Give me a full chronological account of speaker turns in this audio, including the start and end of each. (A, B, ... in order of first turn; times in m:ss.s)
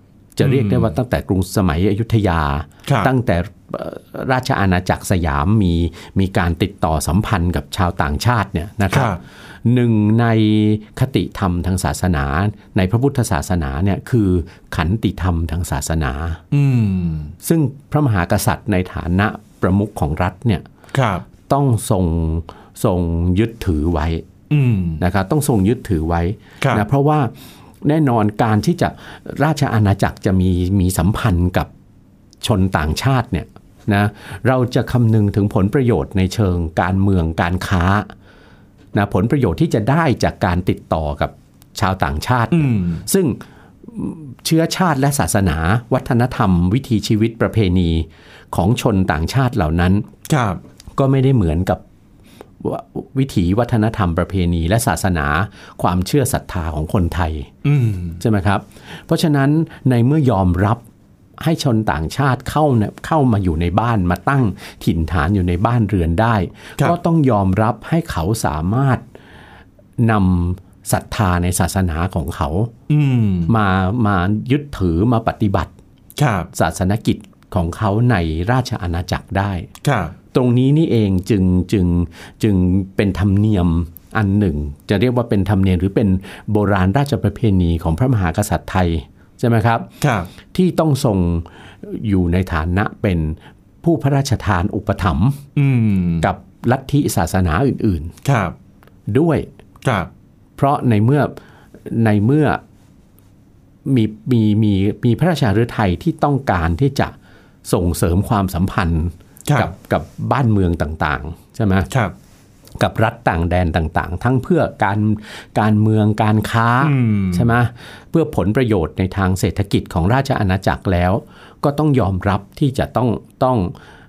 0:00.4-0:16.4 A
0:00.4-0:01.0 B
0:02.9-0:03.1 B
0:08.9-0:09.2 B
0:16.5-0:17.3 B
0:17.4-0:20.7 A
0:20.9-0:21.2 B
0:21.5-0:24.2 A
0:24.5-0:25.0 B
0:25.0-0:27.3 A
0:27.8-0:31.7 A
0:32.4-0:38.1 A
0:38.9-0:50.1 A
0:42.5-0:43.0 B
0:50.3-0:50.6 B
0:51.0-0:51.8 A
0:52.6-0:57.5 A
0:57.6-0:58.2 B
0:58.2-1:00.8 A
1:01.4-1:09.0 A
1:10.0-1:12.7 A
1:12.9-1:13.6 B
1:13.5-1:15.7 A
1:16.2-1:16.5 B
1:16.5-1:19.7 A
1:19.8-1:20.2 B
1:20.3-1:29.9 A
1:30.0-1:30.3 B
1:30.5-1:35.4 A
1:35.6-1:36.3 B
1:36.2-1:38.1 A
1:38.2-1:38.6 B
1:39.1-1:39.5 A
1:39.8-1:40.1 B
1:40.6-1:41.3 A
1:41.8-1:42.6 A
1:43.8-1:51.9 A
1:49.5-1:49.7 B
1:51.9-1:52.2 B
1:52.8-2:03.7 A
1:56.8-1:57.5 B